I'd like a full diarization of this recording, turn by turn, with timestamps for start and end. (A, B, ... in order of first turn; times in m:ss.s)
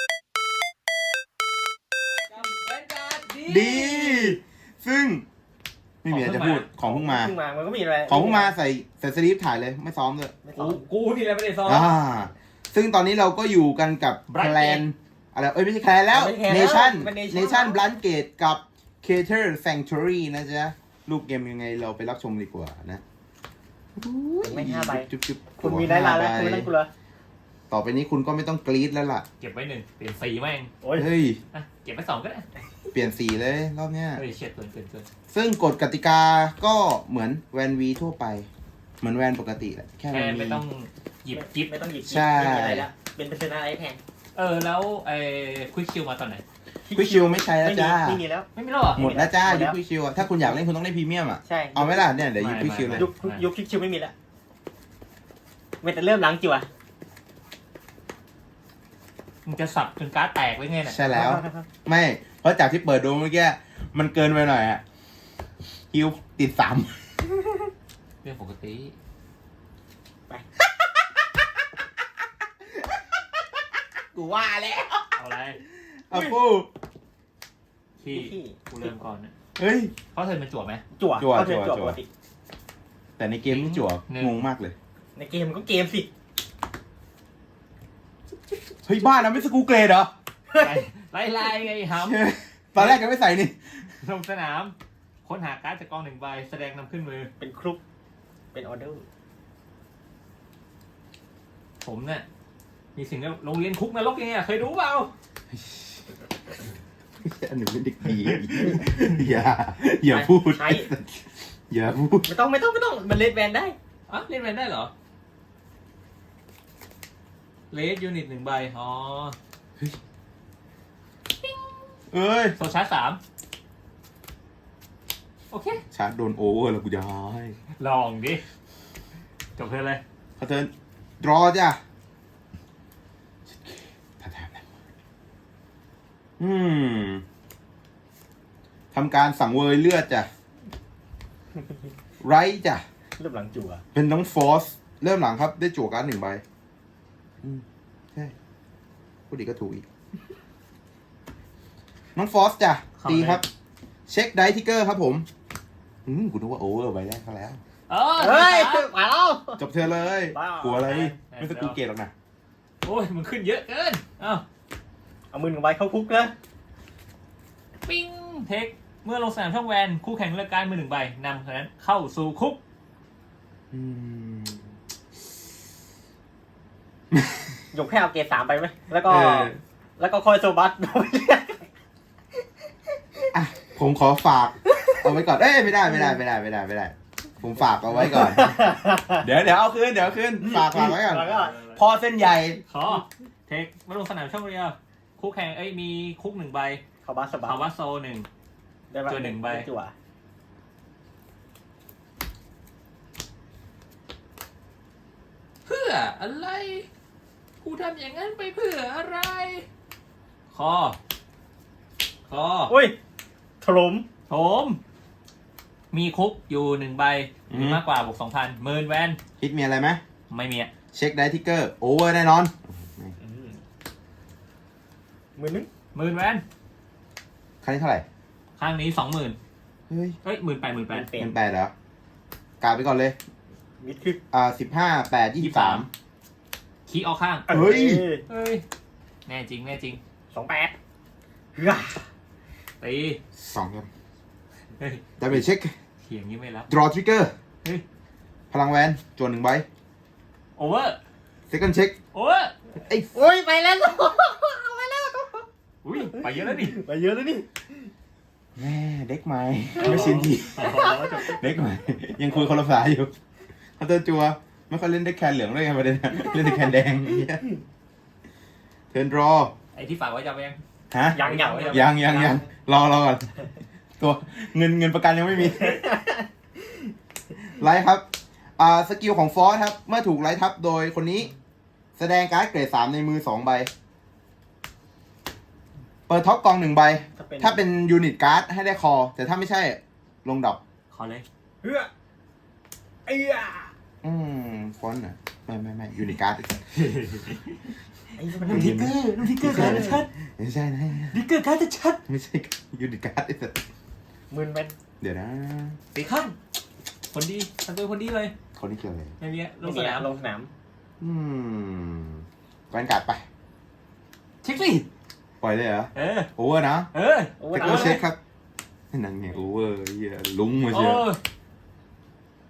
0:02.3-0:04.4 A
0:03.5-0:05.2 B
0:06.0-0:07.3 B
0:06.1-0:06.7 A
0:06.8-0:08.5 C
0:08.1-0:10.3 B
0:10.4-0:10.8 C
0:10.6-0:11.9 A
0:11.6-0:23.0 B
0:14.3-0:14.8 A
0:16.1-0:17.8 C
0:24.0-0:26.7 B
0:24.4-0:26.9 C
0:27.7-0:29.2 B
0:29.4-0:30.7 A
0:30.8-0:31.1 C
0:31.0-0:31.4 B
0:31.5-0:32.4 A
0:32.9-0:34.2 B
0:34.2-0:35.1 A
0:35.3-0:38.5 B
0:39.0-0:40.6 B
0:40.1-0:41.8 A
0:41.3-0:44.0 C
0:42.0-0:42.8 B
0:44.3-0:46.4 A
0:46.9-0:49.8 C
0:46.9-0:48.2 B
0:48.5-0:49.1 A
0:48.9-0:53.1 B
0:51.4-0:52.1 C
0:52.4-0:53.4 A
0:52.9-0:54.1 C
0:55.8-0:56.7 C
0:59.4-1:01.0 A
1:00.8-1:04.8 B
1:01.1-1:01.6 C
1:05.9-1:07.0 B
1:08.2-1:08.9 A
1:14.1-1:15.1 B
1:15.1-1:15.6 A
1:16.1-1:16.7 B
1:18.0-1:19.3 A
1:18.1-1:18.7 C
1:19.6-1:19.9 B
1:20.1-1:20.8 A
1:21.0-1:22.1 C
1:21.2-1:22.0 B
1:23.2-1:24.7 B
1:23.5-1:24.4 A
1:25.2-1:26.1 C
1:28.8-1:30.1 B
1:30.5-1:32.2 A
1:32.0-1:33.6 B
1:34.0-1:37.3 A
1:37.4-1:37.8 C
1:38.5-1:39.0 C
1:41.8-1:42.2 A
1:42.9-1:45.1 A
1:45.5-1:46.0 B
1:47.2-1:52.3 B
1:48.3-1:48.8 A
1:50.1-1:50.9 C
1:52.2-1:53.8 C
1:54.1-1:54.9 A
1:57.7-1:59.4 A
2:02.1-2:02.6 B
2:02.6-2:03.2 A
2:05.5-2:05.8 A
2:05.9-2:07.6 B
2:07.8-2:08.4 A
2:09.6-2:10.0 A
2:10.4-2:11.8 B
2:13.5-2:14.7 B
2:16.4-2:17.2 B
2:18.9-2:20.3 B
2:22.2-2:22.8 B
2:23.2-2:23.8 C
2:23.9-2:26.4 B
2:27.4-2:28.3 B
2:29.3-2:29.8 B
2:32.2-2:33.4 B
2:33.0-2:33.4 A
2:34.1-2:35.2 B
2:36.0-2:37.6 B
2:37.9-2:38.9 A
2:38.2-2:39.6 C
2:39.6-2:42.1 B
2:40.3-2:41.1 C
2:40.8-2:41.8 A
2:42.8-2:44.4 A
2:45.3-2:46.3 C
2:47.8-2:52.6 A
2:53.7-2:54.7 B
2:57.1-2:57.4 B
2:57.7-3:01.6 C
2:59.1-2:59.6 B
3:03.3-3:08.6 B
3:08.0-3:09.2 C
3:09.2-3:12.6 B
3:10.4-3:11.6 C
3:11.1-3:11.8 A
3:12.7-3:16.8 A
3:17.0-3:17.6 C
3:17.4-3:18.3 A
3:18.9-3:19.9 C
3:19.1-3:19.6 A
3:25.6-3:26.9 A
3:27.6-3:29.6 A
3:30.5-3:31.0 A
3:32.3-3:32.7 A
3:32.7-3:33.0 C
3:33.6-3:34.1 C
3:34.3-3:34.8 A
3:35.9-3:39.2 A
3:37.5-3:37.8 B
3:39.4-3:40.0 B
3:40.3-3:40.7 A
3:40.9-3:43.1 B
3:43.2-3:43.6 C
3:45.4-3:45.7 C
3:45.9-3:46.4 A
3:47.6-3:48.0 B
3:48.6-3:49.4 A
3:49.9-3:50.2 B
3:50.2-3:51.1 A
3:50.9-3:51.4 C
3:51.1-3:51.7 B
3:52.6-3:53.2 B
3:53.8-3:54.2 C
3:54.3-3:55.9 B
3:55.4-3:55.8 A
3:56.9-3:57.5 A
3:57.5-3:58.2 C
3:57.5-3:58.0 B
3:58.3-3:58.6 A
3:59.2-4:00.0 A
4:00.3-4:00.7 C
4:01.5-4:02.1 C
4:02.8-4:03.2 A
4:03.4-4:03.9 B
4:04.8-4:05.0 A
4:05.2-4:05.7 B
4:06.0-4:06.7 A
4:06.7-4:07.3 B
4:08.5-4:09.6 B
4:10.6-4:11.0 A
4:11.5-4:11.9 B
4:12.1-4:12.5 A
4:12.8-4:13.1 B
4:13.1-4:17.6 C
4:15.8-4:16.7 A
4:18.6-4:23.1 B
4:19.8-4:21.4 A
4:19.8-4:21.2 C
4:23.8-4:27.4 B
4:28.9-4:29.5 B
4:29.7-4:30.6 A
4:30.9-4:33.3 B
4:31.1-4:32.3 C
4:31.1-4:32.4 A
4:34.0-4:35.8 B
4:35.7-4:36.2 C
4:37.5-4:38.0 B
4:38.6-4:41.3 B
4:42.0-4:43.7 B
4:46.1-4:50.6 B
4:47.2-4:47.6 C
4:50.9-4:51.2 A
4:51.6-4:51.9 C
4:53.1-4:53.7 C
4:54.0-4:56.6 B
4:56.7-4:57.7 A
4:58.2-4:58.9 C
4:58.4-5:01.2 B
4:58.4-5:00.1 A
4:59.4-5:00.0 C
5:01.1-5:02.0 A
5:02.1-5:03.6 B
5:04.3-5:04.7 C
5:05.0-5:05.8 B
5:05.9-5:06.4 A
5:07.1-5:08.3 A
5:08.6-5:09.2 B
5:09.2-5:10.1 A
5:09.6-5:10.5 C
5:11.0-5:13.2 B
5:14.4-5:14.8 A
5:15.4-5:16.9 B
5:15.9-5:16.3 A
5:16.9-5:18.0 A
5:17.4-5:18.0 C
5:17.5-5:18.2 B
5:18.9-5:21.1 B
5:20.7-5:21.2 A